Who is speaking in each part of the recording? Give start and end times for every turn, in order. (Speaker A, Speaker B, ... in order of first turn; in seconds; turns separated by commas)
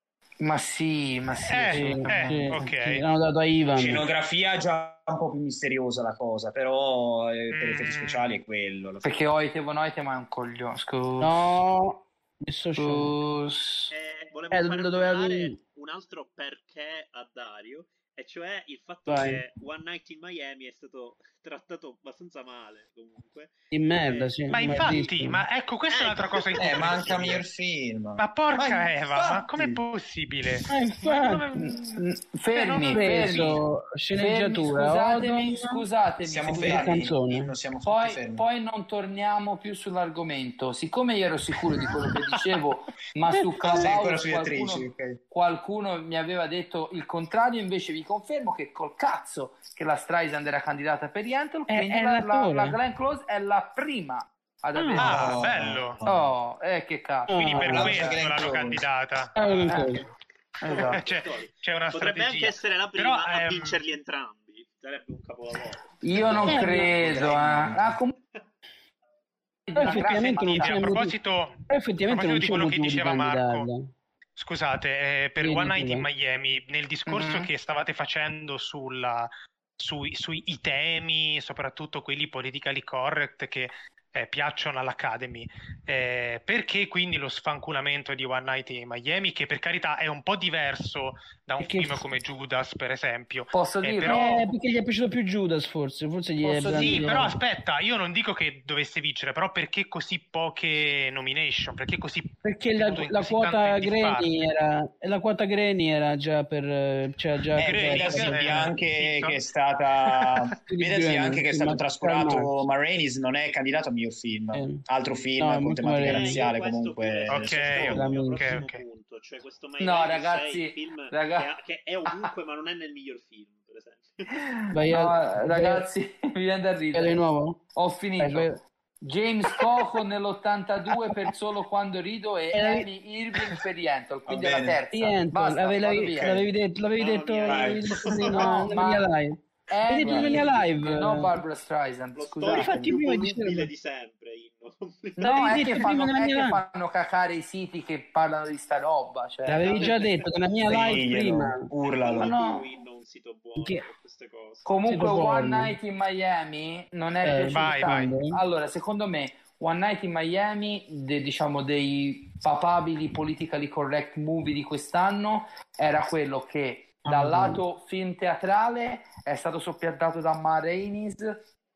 Speaker A: 0.4-2.7, Speaker B: 1.4-3.0, Speaker C: 1.7-4.0, Speaker D: 3.7-9.1, Speaker B: 7.5-8.3, Speaker A: 9.0-11.5, Speaker C: 11.2-13.2, Speaker A: 12.8-13.9, Speaker E: 13.9-24.7, Speaker C: 14.5-15.6, Speaker C: 19.1-19.4, Speaker C: 23.7-25.4, Speaker B: 24.5-27.4, Speaker E: 25.9-27.4, Speaker D: 26.6-29.8, Speaker B: 28.2-33.5, Speaker C: 30.7-31.4, Speaker A: 31.6-33.6, Speaker C: 32.9-35.8, Speaker A: 34.1-37.1, Speaker D: 36.2-38.4, Speaker C: 36.5-37.5, Speaker A: 37.8-55.5, Speaker C: 43.3-43.9, Speaker D: 43.6-45.2, Speaker C: 51.7-52.8, Speaker C: 54.8-55.2, Speaker B: 55.0-56.0, Speaker D: 55.0-56.3, Speaker A: 56.0-58.2, Speaker C: 57.3-57.9, Speaker B: 57.3-60.1, Speaker D: 57.7-58.9, Speaker C: 59.4-60.0, Speaker A: 59.7-60.0, Speaker A: 60.6-61.0, Speaker E: 60.6-65.8, Speaker B: 60.7-63.8, Speaker A: 66.0-68.2, Speaker D: 66.2-68.0, Speaker C: 66.5-66.9, Speaker A: 69.7-71.0, Speaker C: 69.8-71.2, Speaker B: 69.8-73.7, Speaker C: 71.7-73.9, Speaker B: 74.4-94.5, Speaker C: 75.4-76.1, Speaker A: 77.1-77.5, Speaker C: 91.6-92.1, Speaker A: 93.5-94.4, Speaker C: 94.0-97.3, Speaker A: 96.4-97.3, Speaker B: 96.7-104.3, Speaker C: 102.4-108.6, Speaker D: 107.5-118.0, Speaker B: 107.6-109.4, Speaker B: 110.1-110.5, Speaker C: 110.7-112.5, Speaker C: 114.5-114.8, Speaker C: 115.4-116.4, Speaker E: 116.0-124.4, Speaker B: 117.3-118.8, Speaker C: 117.9-118.6, Speaker A: 119.8-121.5, Speaker A: 124.5-127.2, Speaker C: 124.7-125.9, Speaker C: 126.9-127.6, Speaker A: 127.7-136.4, Speaker C: 128.2-128.6, Speaker C: 132.5-132.9, Speaker D: 134.3-134.8, Speaker C: 134.9-141.3, Speaker E: 137.0-138.6, Speaker D: 137.4-138.6, Speaker A: 138.3-139.1, Speaker A: 139.7-142.9, Speaker E: 140.1-140.5, Speaker E: 142.1-145.8, Speaker C: 142.4-143.7, Speaker A: 145.2-150.0, Speaker C: 145.2-146.6, Speaker C: 149.5-151.7, Speaker E: 149.5-150.2, Speaker D: 150.6-152.3, Speaker E: 151.8-154.7, Speaker A: 152.2-152.6, Speaker A: 154.6-171.4, Speaker C: 154.9-155.7, Speaker C: 157.2-158.4, Speaker B: 157.4-158.1, Speaker C: 167.1-167.6